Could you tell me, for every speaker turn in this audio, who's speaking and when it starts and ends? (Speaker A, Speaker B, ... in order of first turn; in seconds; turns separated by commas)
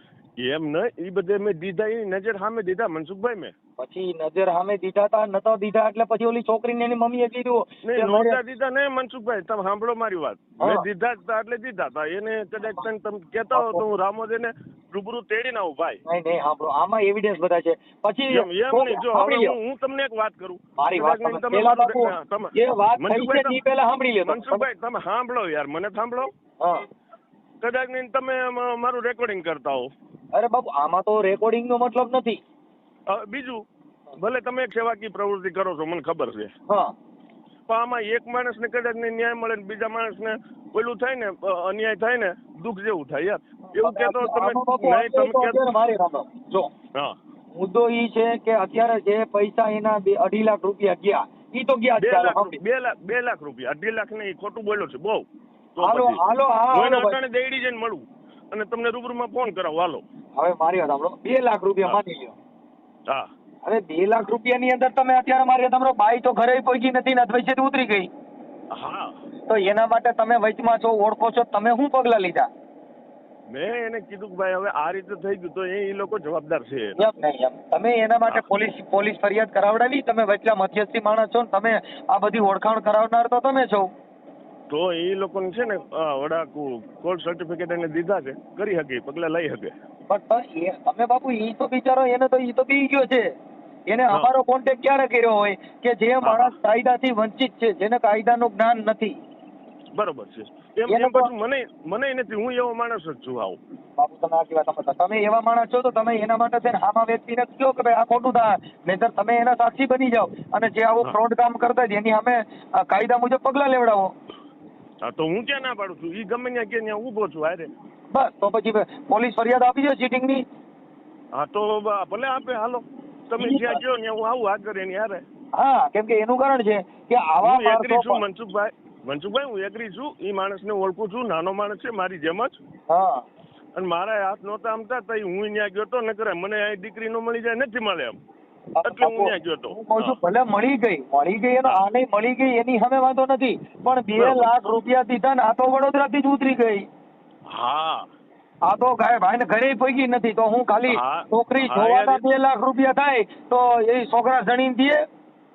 Speaker A: 0.4-3.5, Speaker B: 3.8-8.4, Speaker A: 7.8-16.0, Speaker B: 10.6-10.8, Speaker B: 13.5-13.8, Speaker B: 16.1-19.5, Speaker A: 18.3-23.6, Speaker B: 20.8-24.6, Speaker A: 24.2-26.3, Speaker B: 26.6-26.8, Speaker A: 27.6-29.9, Speaker B: 30.3-32.4, Speaker A: 33.1-33.6, Speaker A: 34.2-36.5, Speaker B: 36.7-36.9, Speaker A: 37.7-45.6, Speaker B: 43.7-46.7, Speaker B: 47.5-52.6, Speaker A: 52.0-55.2, Speaker A: 55.8-56.2, Speaker B: 55.8-57.2, Speaker A: 56.7-60.0, Speaker B: 60.4-62.3, Speaker B: 63.6-68.1, Speaker A: 68.7-69.2, Speaker B: 69.5-72.5, Speaker A: 73.5-77.0, Speaker B: 77.0-83.9, Speaker A: 84.7-89.7, Speaker B: 90.1-93.3, Speaker B: 93.9-99.2, Speaker A: 96.2-96.5, Speaker A: 99.9-103.6, Speaker B: 100.9-101.3, Speaker B: 104.0-114.1, Speaker A: 115.0-117.7, Speaker B: 118.1-120.4, Speaker A: 121.3-125.2, Speaker B: 123.4-123.8, Speaker B: 125.5-128.2, Speaker A: 127.4-132.6, Speaker B: 132.9-133.2, Speaker A: 133.8-138.2, Speaker B: 138.8-146.8, Speaker A: 138.8-140.2, Speaker A: 144.1-144.5, Speaker A: 147.5-148.1, Speaker B: 148.6-155.0, Speaker A: 150.9-152.2